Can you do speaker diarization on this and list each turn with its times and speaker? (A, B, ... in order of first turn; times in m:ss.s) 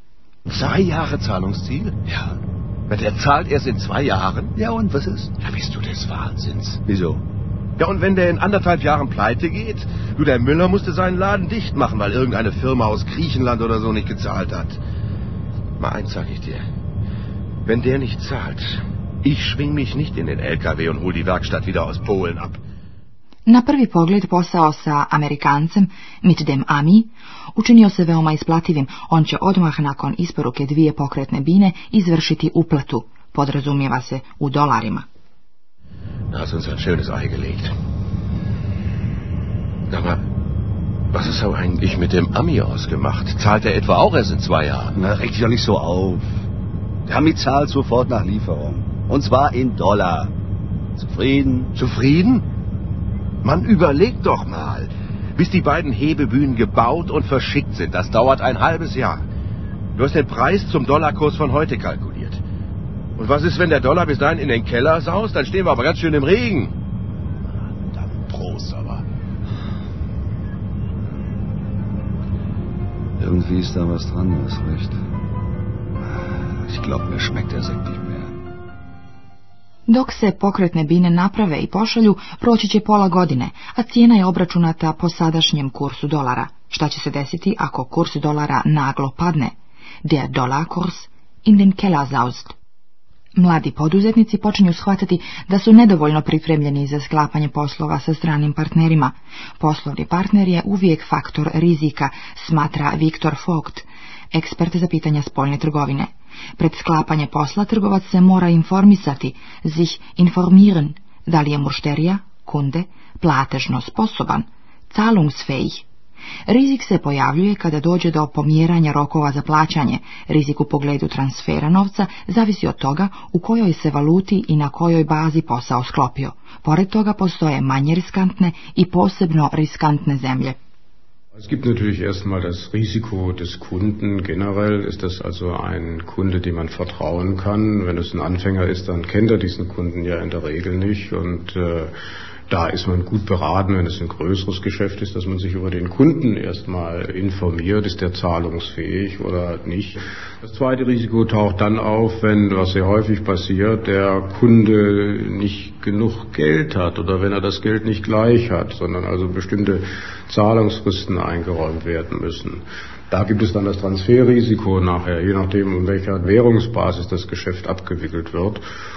0:00.5-0:02.4 A
0:02.9-0:04.5 A
0:04.5-0:05.3 B
0:05.4-0:06.8 A
0:06.8-0:07.2 B
0:07.8-0:14.8 A
0:15.8-0:16.6 A
0:17.6-0:22.6 A
0:23.5-0:35.0 C
0:36.3-0:37.7 A
0:39.9-0:40.2 A
0:41.1-0:45.0 A
0:44.9-0:46.4 B
0:47.0-0:50.3 B
0:51.0-0:51.7 B
0:51.7-0:52.5 A
0:53.4-0:59.2 A
1:00.0-1:02.4 A
1:03.2-1:06.7 A
1:07.8-1:09.0 A
1:13.2-1:15.0 B
1:16.6-1:18.4 B
1:19.9-1:32.6 C
1:33.4-1:55.8 C
1:56.5-2:10.6 C
2:11.4-2:21.9 D
2:22.5-2:48.6 D